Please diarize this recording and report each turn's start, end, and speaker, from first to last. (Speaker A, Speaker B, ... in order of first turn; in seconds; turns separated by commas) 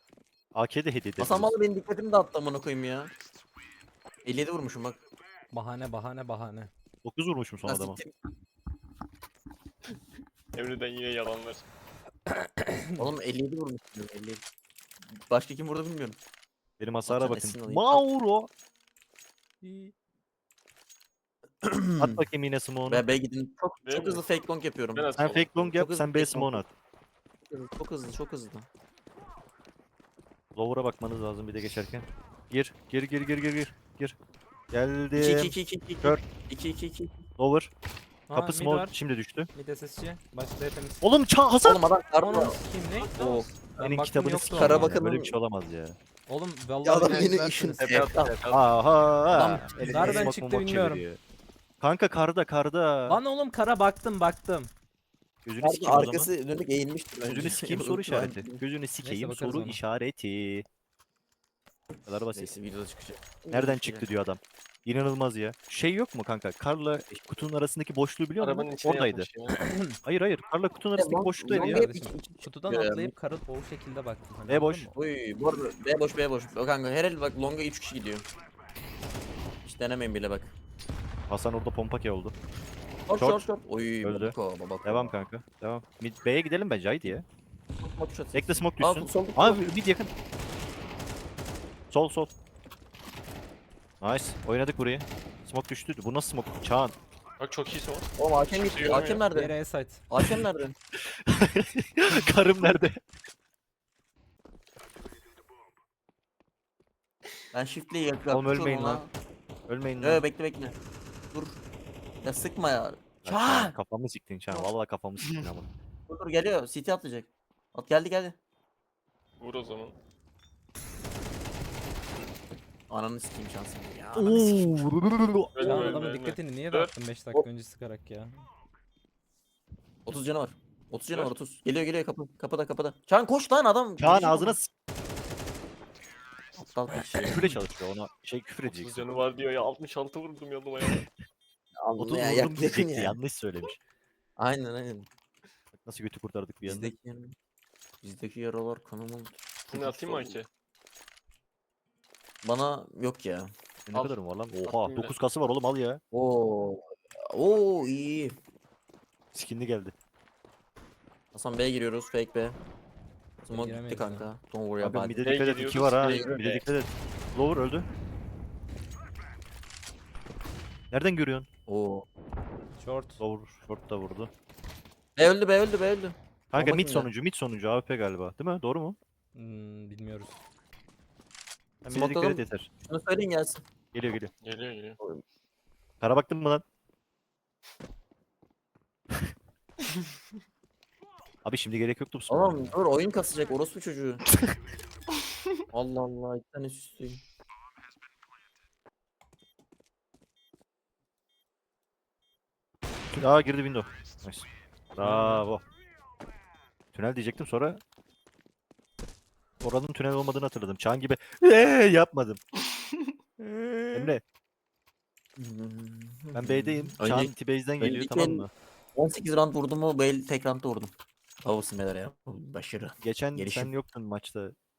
Speaker A: 0.6-1.5, Speaker B: 1.2-3.1, Speaker B: 4.2-5.0, Speaker C: 5.5-6.7, Speaker A: 7.0-8.0, Speaker B: 7.7-8.2, Speaker D: 10.5-11.7, Speaker C: 12.3-13.1, Speaker B: 13.0-14.4, Speaker B: 15.3-16.2, Speaker A: 16.8-18.5, Speaker B: 17.1-18.0, Speaker C: 19.6-19.9, Speaker B: 21.6-22.2, Speaker A: 22.0-23.1, Speaker B: 22.9-26.6, Speaker D: 23.9-24.2, Speaker D: 24.9-25.7, Speaker A: 25.2-26.7, Speaker B: 27.5-28.7, Speaker A: 30.6-34.2, Speaker A: 34.7-36.2, Speaker B: 35.2-37.2, Speaker A: 37.4-37.7, Speaker C: 38.3-39.0, Speaker A: 38.3-39.5, Speaker C: 39.5-41.1, Speaker A: 41.0-41.8, Speaker B: 41.6-42.6, Speaker C: 42.2-43.2, Speaker D: 43.0-43.5, Speaker B: 43.2-43.5, Speaker C: 43.8-45.0, Speaker A: 43.8-46.0, Speaker B: 44.5-45.4, Speaker C: 46.3-48.1, Speaker B: 46.8-48.4, Speaker D: 47.8-48.8, Speaker A: 48.5-51.2, Speaker B: 49.3-50.4, Speaker C: 49.9-51.0, Speaker A: 51.8-53.2, Speaker C: 53.1-54.7, Speaker A: 55.5-56.3, Speaker B: 55.6-58.6, Speaker A: 57.2-60.7, Speaker C: 59.0-59.8, Speaker A: 62.1-62.5, Speaker B: 62.4-64.1, Speaker A: 63.5-69.3, Speaker D: 68.4-69.7, Speaker C: 69.6-70.0, Speaker A: 70.0-71.8, Speaker B: 71.0-73.1, Speaker C: 71.5-75.0, Speaker A: 74.5-74.9, Speaker B: 75.0-78.2, Speaker B: 79.7-80.5, Speaker A: 81.3-82.3, Speaker B: 83.1-85.1, Speaker A: 83.2-83.4, Speaker A: 84.0-87.2, Speaker B: 87.8-89.7, Speaker A: 88.3-90.1, Speaker A: 91.9-92.3, Speaker A: 94.0-97.0, Speaker D: 97.4-98.1, Speaker B: 98.2-99.5, Speaker D: 98.6-99.2, Speaker C: 99.3-100.0, Speaker B: 100.1-100.8, Speaker A: 101.2-103.0, Speaker B: 107.5-109.1, Speaker A: 108.3-109.0, Speaker A: 109.7-110.2, Speaker B: 110.0-110.8, Speaker B: 111.3-111.6, Speaker B: 112.2-113.7, Speaker A: 113.2-115.7, Speaker B: 116.1-118.4, Speaker D: 119.4-120.0, Speaker B: 122.9-124.7, Speaker A: 124.2-126.0, Speaker D: 125.5-126.9, Speaker C: 125.6-128.4, Speaker B: 130.1-134.6, Speaker A: 134.0-134.7, Speaker B: 136.6-137.4, Speaker A: 137.3-139.1, Speaker D: 138.7-141.1, Speaker B: 141.8-143.2, Speaker A: 142.0-143.8, Speaker B: 144.4-145.1, Speaker A: 145.8-146.9, Speaker B: 146.6-147.3, Speaker B: 148.0-150.4, Speaker D: 149.7-150.5, Speaker B: 152.4-154.1, Speaker A: 153.9-156.0, Speaker D: 154.7-155.2, Speaker B: 156.1-158.3, Speaker A: 159.3-159.9, Speaker B: 161.3-162.6, Speaker B: 163.4-165.4, Speaker C: 163.5-164.3, Speaker A: 164.8-167.9, Speaker D: 165.2-166.7, Speaker B: 166.0-166.6, Speaker A: 170.9-171.5, Speaker B: 171.7-172.1, Speaker C: 172.8-173.2, Speaker A: 173.2-174.3, Speaker B: 175.2-177.1, Speaker A: 176.5-179.0, Speaker C: 179.3-180.4, Speaker A: 181.8-182.7, Speaker B: 181.9-183.6, Speaker A: 183.9-184.3, Speaker D: 184.4-185.0, Speaker A: 186.0-186.6, Speaker A: 191.4-192.7, Speaker B: 192.3-194.2, Speaker B: 195.7-197.2, Speaker A: 203.1-205.6, Speaker D: 205.0-205.4, Speaker A: 206.9-207.8, Speaker A: 209.6-212.4, Speaker B: 213.4-214.1, Speaker A: 213.9-214.2, Speaker B: 215.4-220.9, Speaker A: 216.3-218.5, Speaker B: 221.4-223.7, Speaker A: 223.0-224.6